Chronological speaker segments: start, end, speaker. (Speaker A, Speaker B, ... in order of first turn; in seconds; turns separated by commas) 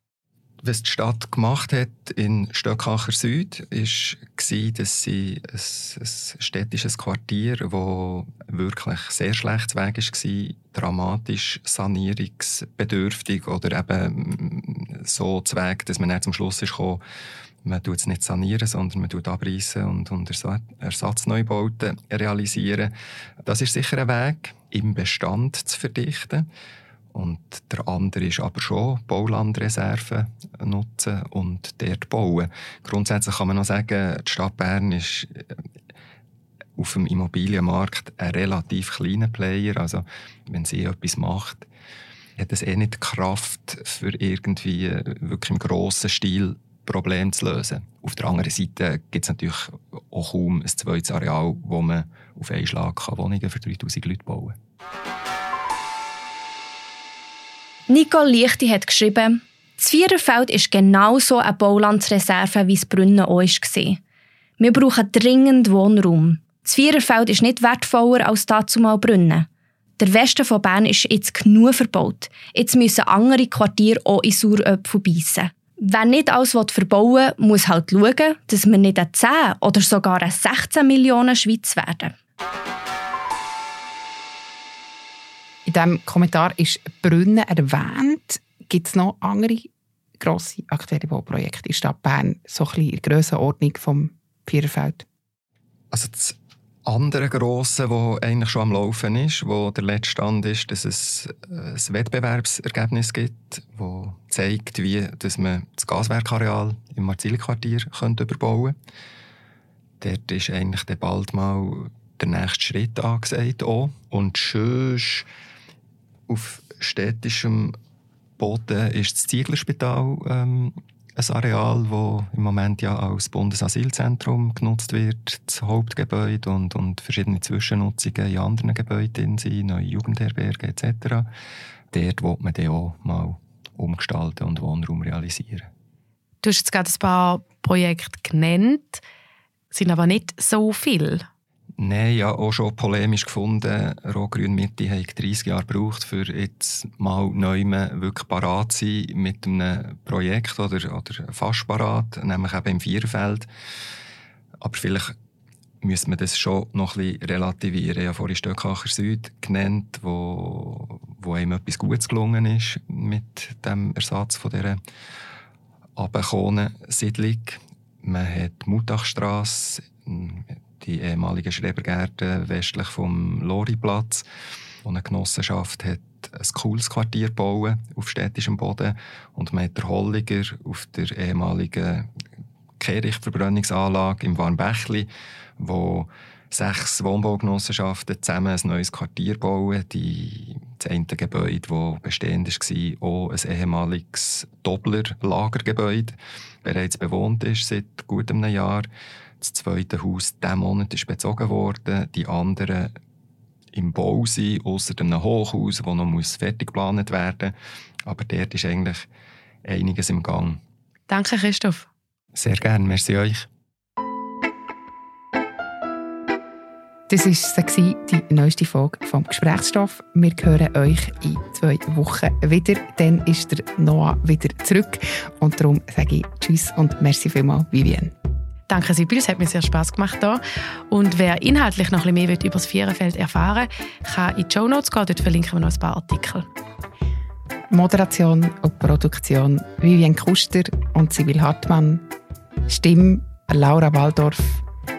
Speaker A: 0.6-17.0, Speaker A: 17.6-22.9, Speaker A: 23.4-26.5, Speaker A: 27.1-35.5, Speaker A: 36.8-41.7, Speaker A: 42.4-54.6, Speaker B: 57.9-64.0, Speaker B: 64.6-69.5, Speaker B: 70.0-82.1, Speaker C: 85.7-89.7, Speaker C: 90.2-95.0, Speaker A: 95.9-108.7, Speaker A: 110.0-115.3, Speaker A: 116.3-117.8, Speaker A: 118.4-131.3, Speaker A: 131.9-135.7, Speaker D: 136.4-139.0, Speaker D: 139.7-141.2, Speaker A: 141.8-153.5, Speaker A: 154.6-155.1, Speaker A: 155.8-164.8, Speaker A: 166.0-174.2, Speaker A: 174.8-182.1, Speaker A: 182.8-198.9, Speaker A: 199.4-202.9, Speaker A: 203.7-207.5, Speaker A: 208.0-209.1, Speaker A: 209.6-210.6, Speaker D: 211.1-211.9, Speaker A: 212.3-213.5, Speaker C: 217.1-228.1, Speaker D: 228.7-236.5, Speaker C: 237.7-242.0, Speaker C: 242.7-244.6